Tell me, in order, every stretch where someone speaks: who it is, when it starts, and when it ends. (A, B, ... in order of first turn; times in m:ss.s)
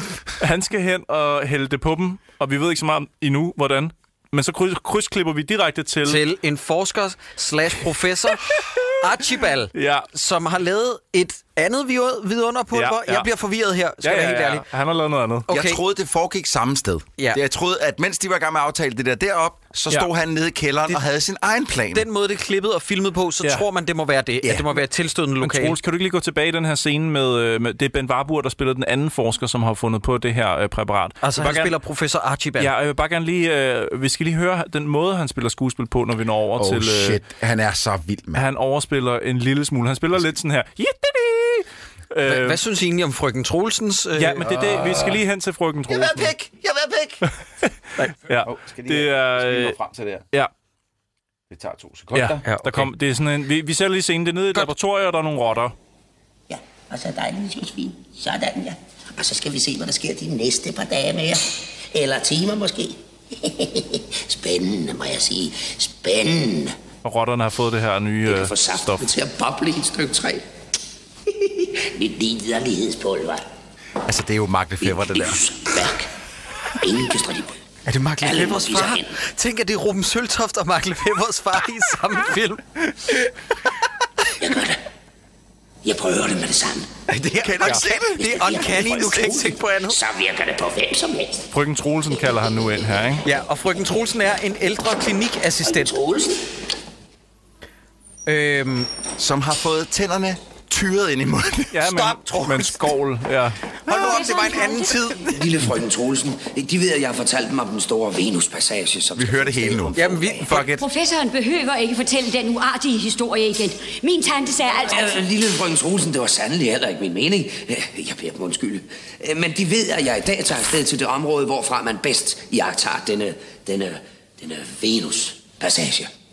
0:00.4-0:06.2 A
0:06.0-0:14.6 B
0:08.4-0:08.9 A
0:09.7-0:10.1 A
0:12.7-0:13.3 A
0:14.0-0:15.5 A
0:15.5-0:15.8 B
0:15.5-0:22.1 C
0:21.9-0:25.8 B
0:24.4-0:24.7 C
0:25.4-0:31.7 A
0:31.2-0:32.7 B
0:32.6-0:37.2 A
0:36.6-0:38.4 C
0:38.3-0:42.6 A
0:42.2-0:44.6 B
0:44.2-0:46.3 A
0:44.4-0:45.2 C
0:45.9-0:47.2 C
0:47.3-0:49.8 A
0:48.4-0:50.2 C
0:51.5-0:52.4 C
0:52.1-0:55.7 A
0:52.4-0:52.9 B
0:56.5-1:06.7 D
1:07.0-1:09.0 A
1:08.2-1:10.4 D
1:11.3-1:13.4 D
1:14.0-1:15.4 C
1:14.8-1:16.1 D
1:16.7-1:17.6 D
1:17.9-1:22.7 B
1:18.2-1:19.1 D
1:24.4-1:24.8 D
1:25.8-1:26.9 D
1:27.1-1:30.0 B
1:27.2-1:29.1 C
1:28.1-1:31.4 D
1:31.5-1:33.2 A
1:33.2-1:35.9 B
1:35.6-1:36.4 D
1:38.3-1:38.9 B
1:39.2-1:42.1 C
1:41.7-1:43.6 A
1:41.9-1:42.8 B
1:43.9-1:45.3 B
1:43.9-1:45.5 C
1:44.0-1:44.9 E
1:45.3-1:50.5 D
1:49.1-1:50.8 C
1:50.0-1:50.7 B
1:50.7-1:55.2 E
1:54.8-2:06.1 D